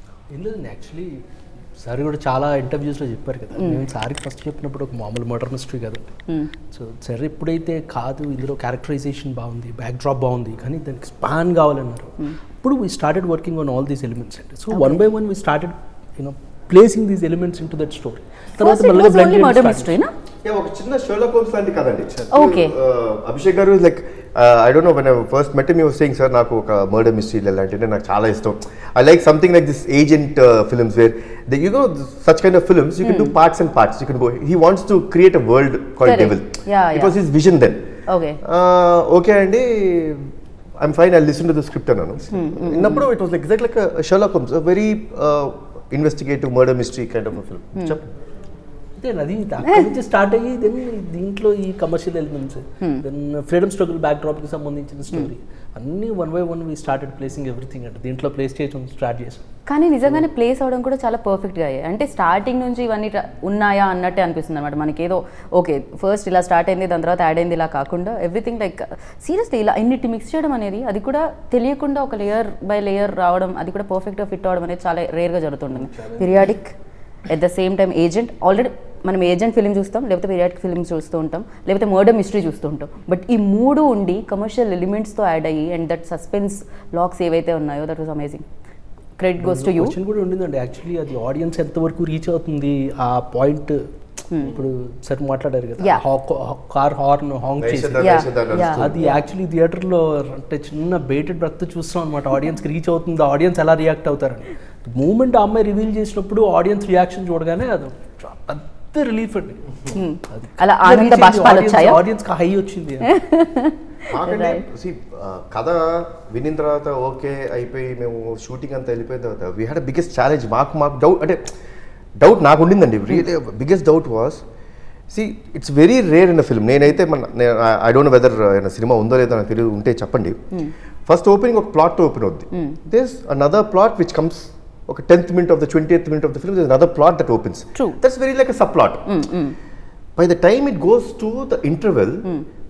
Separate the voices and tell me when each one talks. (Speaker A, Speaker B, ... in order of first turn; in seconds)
Speaker A: 0.3-1.2, 1.8-6.1, 6.7-19.9, 49.0-59.4, 75.8-76.5, 89.4-113.2
Speaker B: 3.5-3.8, 6.3-6.5, 14.7-15.0, 18.6-20.1, 22.3-22.7, 33.0-33.3, 36.0-37.2, 38.1-38.4, 42.3-43.0, 59.7-76.8, 77.3-88.4, 89.2-89.9, 94.3-94.6, 98.0-99.2, 109.9-112.0, 113.0-114.7, 139.1-139.6
Speaker C: 20.4-37.8, 38.4-48.1, 97.6-99.1, 114.1-121.4, 122.2-124.4, 125.1-130.4, 131.1-139.1, 140.2-142.2